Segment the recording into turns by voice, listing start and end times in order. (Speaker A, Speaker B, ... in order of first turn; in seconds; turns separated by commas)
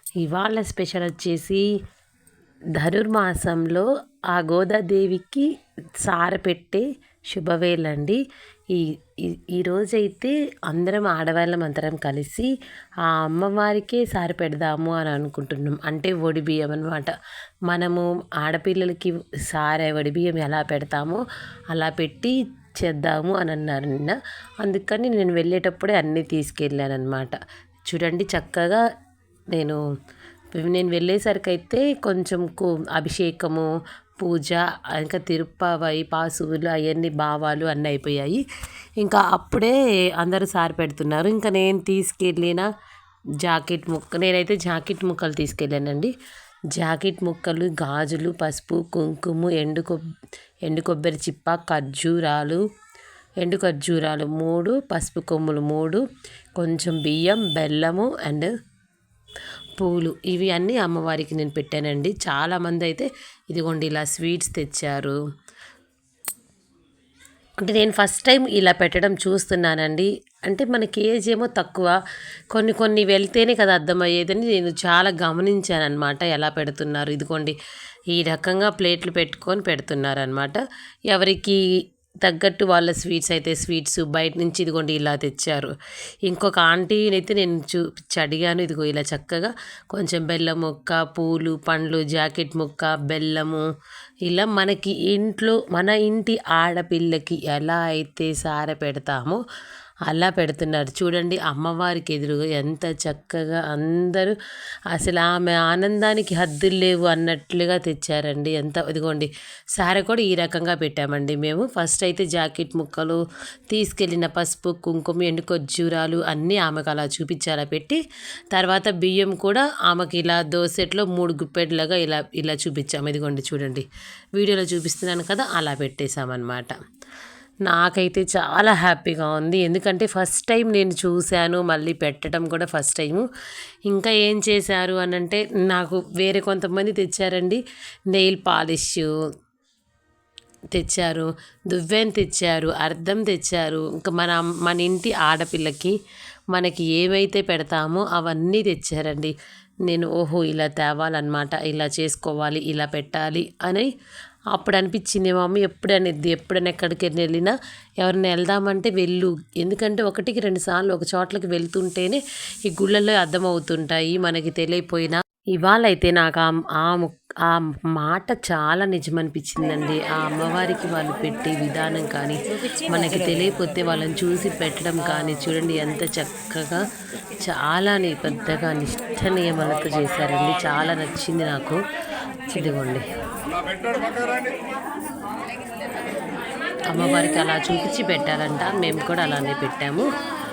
Speaker A: 0.2-1.6, Speaker A: 2.8-5.5, Speaker A: 6.0-8.2, Speaker A: 8.7-12.5, Speaker A: 13.0-17.1, Speaker A: 17.7-27.4, Speaker A: 27.9-28.8, Speaker A: 29.5-29.8, Speaker A: 30.5-33.7, Speaker A: 34.2-38.4, Speaker A: 39.0-42.7, Speaker A: 43.4-46.1, Speaker A: 46.7-50.0, Speaker A: 50.6-52.6, Speaker A: 53.4-56.0, Speaker A: 56.6-58.5, Speaker A: 59.8-65.2, Speaker A: 67.6-71.9, Speaker A: 72.5-77.5, Speaker A: 78.1-81.6, Speaker A: 82.2-85.7, Speaker A: 86.2-93.6, Speaker A: 94.2-99.4, Speaker A: 100.1-104.3, Speaker A: 104.9-118.0, Speaker A: 118.5-126.7, Speaker A: 127.7-133.2, Speaker A: 133.9-139.1, Speaker A: 140.7-145.9, Speaker A: 146.5-149.3, Speaker A: 149.9-153.9, Speaker A: 154.5-176.9, Speaker A: 177.4-181.8, Speaker A: 182.5-183.0, Speaker A: 186.9-190.0